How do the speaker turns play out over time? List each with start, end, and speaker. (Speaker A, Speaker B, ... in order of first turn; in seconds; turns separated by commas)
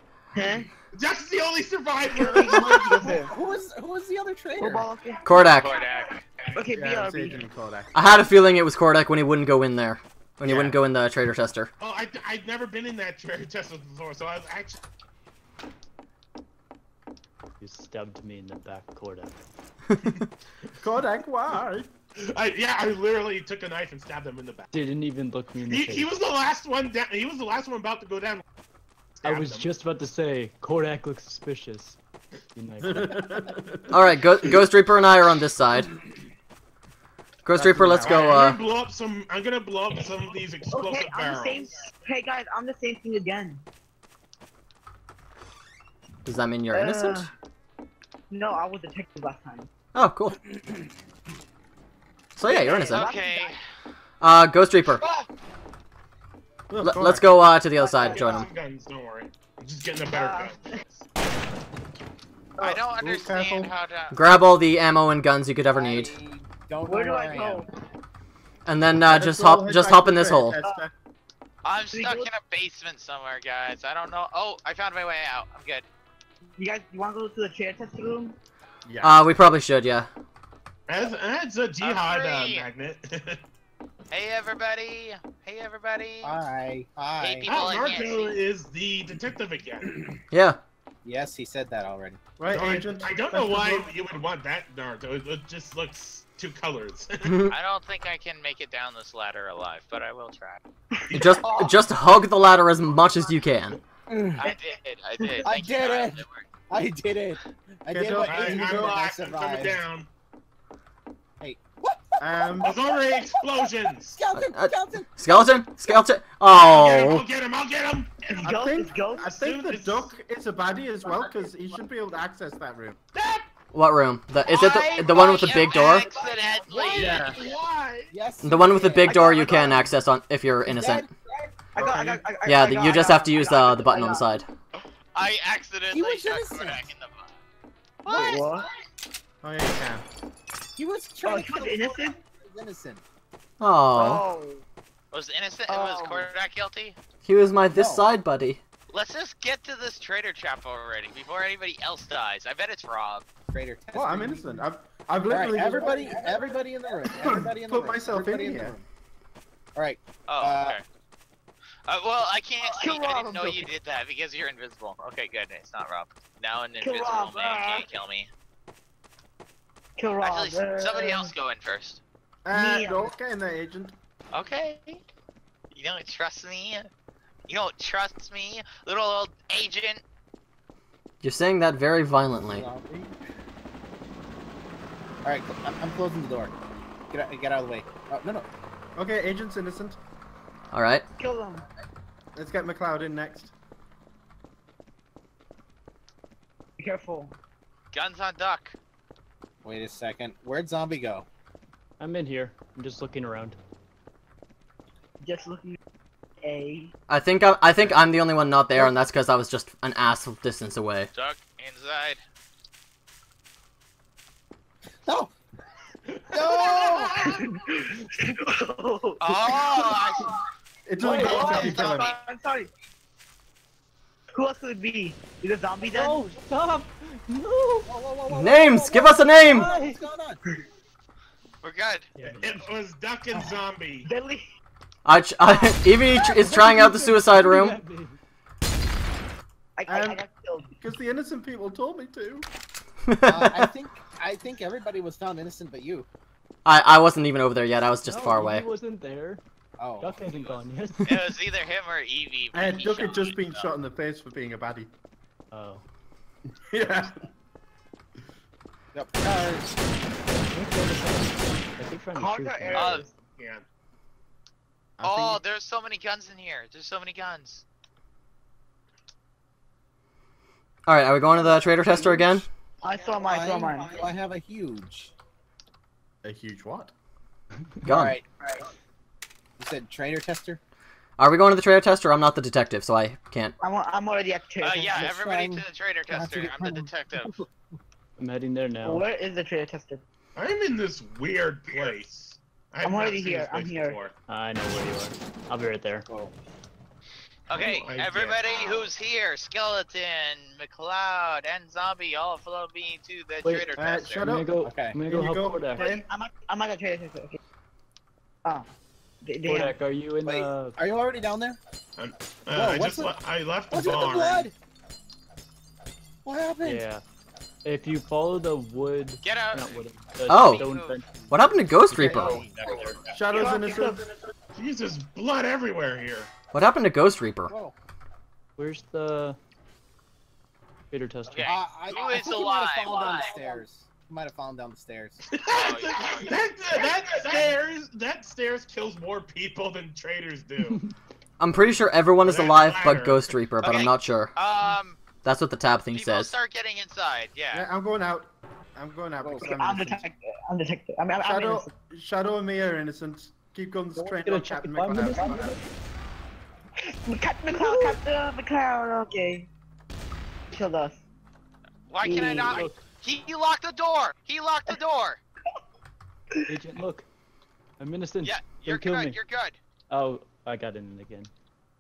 Speaker A: 0.3-0.7, Speaker B: 0.9-3.2, Speaker A: 2.1-3.3, Speaker C: 3.2-4.9, Speaker A: 4.6-5.4, Speaker D: 5.2-5.8, Speaker E: 5.5-6.2, Speaker A: 6.5-7.4, Speaker F: 6.7-7.9, Speaker D: 8.0-11.7, Speaker B: 10.4-10.8, Speaker B: 11.8-14.8, Speaker G: 17.6-19.4, Speaker F: 20.8-21.9, Speaker B: 22.2-24.7, Speaker G: 24.7-26.1, Speaker B: 25.7-28.4, Speaker B: 29.2-29.7, Speaker G: 29.2-32.0, Speaker G: 32.5-33.4, Speaker F: 32.8-33.9, Speaker D: 33.9-35.9, Speaker D: 37.5-38.6, Speaker F: 37.5-38.5, Speaker B: 38.0-41.6, Speaker A: 40.7-43.6, Speaker D: 46.2-47.3, Speaker A: 46.7-47.3, Speaker A: 48.3-49.7, Speaker D: 50.0-50.4, Speaker D: 52.4-53.1, Speaker A: 52.5-53.5, Speaker E: 52.9-53.6, Speaker D: 54.2-55.0, Speaker F: 56.7-57.3, Speaker D: 56.8-58.5, Speaker A: 57.8-58.4, Speaker B: 58.1-61.0, Speaker A: 60.1-60.8, Speaker E: 62.6-64.2, Speaker F: 63.0-63.7, Speaker D: 64.1-66.1, Speaker C: 65.7-67.7, Speaker A: 66.9-67.7, Speaker D: 68.7-70.6, Speaker F: 69.0-70.9, Speaker E: 71.6-75.8, Speaker A: 71.9-72.3, Speaker A: 76.6-78.4, Speaker F: 78.8-79.2, Speaker D: 79.0-80.1, Speaker B: 80.9-83.4, Speaker E: 81.8-82.7, Speaker E: 84.1-86.4, Speaker C: 86.2-87.5, Speaker E: 87.2-88.4, Speaker B: 87.5-90.0, Speaker D: 90.3-90.6, Speaker C: 91.0-92.2, Speaker F: 92.4-93.9, Speaker B: 92.5-97.3, Speaker D: 97.2-97.5, Speaker E: 97.5-100.6, Speaker A: 100.9-101.7, Speaker D: 101.1-103.8, Speaker C: 104.1-104.5, Speaker E: 104.4-106.5, Speaker C: 105.4-109.8, Speaker F: 107.9-109.1, Speaker B: 108.2-110.1, Speaker C: 111.4-115.1, Speaker F: 112.2-112.8, Speaker B: 112.6-114.2, Speaker D: 114.3-117.2, Speaker B: 116.5-118.5, Speaker A: 118.3-119.4, Speaker F: 118.4-123.0, Speaker B: 119.3-120.1, Speaker C: 121.0-121.3, Speaker B: 123.1-123.5, Speaker D: 123.7-126.1, Speaker E: 124.5-127.5, Speaker A: 125.9-126.4, Speaker B: 126.7-128.1, Speaker F: 126.9-127.4, Speaker C: 128.1-129.9, Speaker D: 128.4-131.1, Speaker A: 129.1-129.7, Speaker C: 130.6-131.1, Speaker A: 131.6-134.3, Speaker B: 131.8-132.2, Speaker D: 132.4-134.5, Speaker E: 135.1-137.4, Speaker C: 135.9-136.9, Speaker C: 138.1-138.4, Speaker E: 138.1-138.5, Speaker A: 138.1-138.7, Speaker F: 139.4-140.0, Speaker C: 140.8-143.0, Speaker A: 141.2-142.2, Speaker D: 143.6-144.2, Speaker A: 143.9-144.6, Speaker E: 145.1-147.0, Speaker A: 145.7-146.3, Speaker D: 147.2-148.6, Speaker C: 147.7-148.0, Speaker E: 148.9-153.2, Speaker C: 153.5-154.6, Speaker F: 153.9-156.5, Speaker C: 155.3-158.8, Speaker A: 155.8-156.2, Speaker F: 157.1-158.8, Speaker C: 159.8-160.8, Speaker E: 160.3-160.8, Speaker E: 161.9-168.3, Speaker A: 162.6-163.7, Speaker A: 166.8-167.9, Speaker A: 170.0-171.3, Speaker E: 170.2-172.0, Speaker F: 172.4-174.0, Speaker A: 172.5-173.1, Speaker E: 174.3-175.0, Speaker E: 175.7-176.9, Speaker E: 177.5-180.0, Speaker D: 181.2-182.7, Speaker C: 182.4-183.1, Speaker C: 185.2-186.5, Speaker C: 187.1-188.5, Speaker F: 189.0-190.0, Speaker D: 190.7-191.1, Speaker A: 191.2-191.7, Speaker F: 192.3-193.5, Speaker A: 196.8-197.4, Speaker E: 197.9-198.8, Speaker C: 199.6-201.3, Speaker G: 202.0-203.6, Speaker A: 205.2-205.8, Speaker A: 206.4-206.9, Speaker D: 207.1-211.1, Speaker E: 211.1-212.2, Speaker C: 215.1-215.3, Speaker B: 216.1-217.4, Speaker C: 216.3-217.3, Speaker A: 216.8-220.0, Speaker E: 219.2-220.3, Speaker F: 220.9-222.1, Speaker A: 221.0-222.7, Speaker G: 221.1-221.7, Speaker B: 221.2-221.5, Speaker E: 221.3-222.2, Speaker A: 224.3-226.2, Speaker G: 225.8-227.9, Speaker C: 227.9-230.4, Speaker D: 228.3-229.7, Speaker G: 229.5-230.0, Speaker E: 231.6-232.1, Speaker G: 232.2-232.7, Speaker B: 232.2-234.1, Speaker C: 233.3-233.6, Speaker A: 234.1-234.5, Speaker D: 235.1-237.8, Speaker G: 236.2-238.2, Speaker A: 239.8-240.7, Speaker F: 239.9-240.2, Speaker F: 240.8-242.5, Speaker D: 243.1-243.7, Speaker C: 243.2-246.1, Speaker D: 246.7-248.7, Speaker G: 248.1-249.4, Speaker C: 249.8-250.2, Speaker G: 250.0-251.3, Speaker E: 250.2-253.7, Speaker F: 252.5-254.9, Speaker G: 255.5-255.8, Speaker F: 256.7-257.1, Speaker C: 258.9-259.7, Speaker G: 260.3-263.1, Speaker A: 262.1-263.1, Speaker E: 262.7-263.1, Speaker B: 263.4-263.6, Speaker F: 265.0-265.4, Speaker E: 265.0-267.6, Speaker D: 270.9-272.5, Speaker C: 271.4-275.1, Speaker A: 272.8-274.0, Speaker F: 276.2-276.9, Speaker D: 277.9-278.2, Speaker C: 277.9-278.2, Speaker C: 279.6-280.6, Speaker D: 281.2-283.6, Speaker A: 283.6-285.1, Speaker E: 284.6-287.4, Speaker C: 284.9-287.5, Speaker G: 288.2-289.1, Speaker A: 288.8-290.0, Speaker B: 290.4-294.1, Speaker A: 292.8-294.1, Speaker G: 294.3-296.1, Speaker C: 296.1-296.3, Speaker E: 297.5-304.3, Speaker B: 297.5-298.8, Speaker G: 303.4-305.9, Speaker F: 303.7-306.1, Speaker C: 304.6-305.0, Speaker A: 305.8-307.4, Speaker A: 308.4-308.7, Speaker A: 309.2-309.8, Speaker G: 309.4-310.8, Speaker C: 310.2-311.6, Speaker B: 312.0-314.5, Speaker C: 312.5-313.2, Speaker C: 313.7-314.6, Speaker C: 316.2-316.9, Speaker G: 316.6-317.0, Speaker G: 317.6-321.1, Speaker E: 319.2-319.8, Speaker D: 320.3-320.7, Speaker E: 320.3-321.0, Speaker C: 321.3-322.8, Speaker D: 321.3-322.5, Speaker G: 321.9-323.1, Speaker F: 323.0-324.0, Speaker A: 323.3-324.1, Speaker B: 324.6-326.3, Speaker D: 326.5-327.5, Speaker C: 327.5-327.7, Speaker G: 328.6-329.4, Speaker G: 330.9-331.7, Speaker E: 331.3-333.3, Speaker C: 331.4-335.2, Speaker B: 335.3-340.8, Speaker E: 335.5-336.4, Speaker G: 340.6-340.9, Speaker D: 341.4-344.3, Speaker B: 342.2-343.3, Speaker E: 343.6-345.0, Speaker D: 345.2-346.4, Speaker E: 345.9-347.7, Speaker F: 347.5-350.0, Speaker C: 349.2-349.5, Speaker A: 349.4-351.7, Speaker F: 351.2-355.6, Speaker G: 354.0-355.6, Speaker A: 357.1-359.5, Speaker G: 357.5-358.0, Speaker A: 360.5-361.0, Speaker E: 361.9-365.2, Speaker A: 362.0-362.6, Speaker G: 362.2-362.9, Speaker G: 366.5-367.1, Speaker G: 367.8-369.2, Speaker E: 368.2-369.6, Speaker G: 369.9-371.3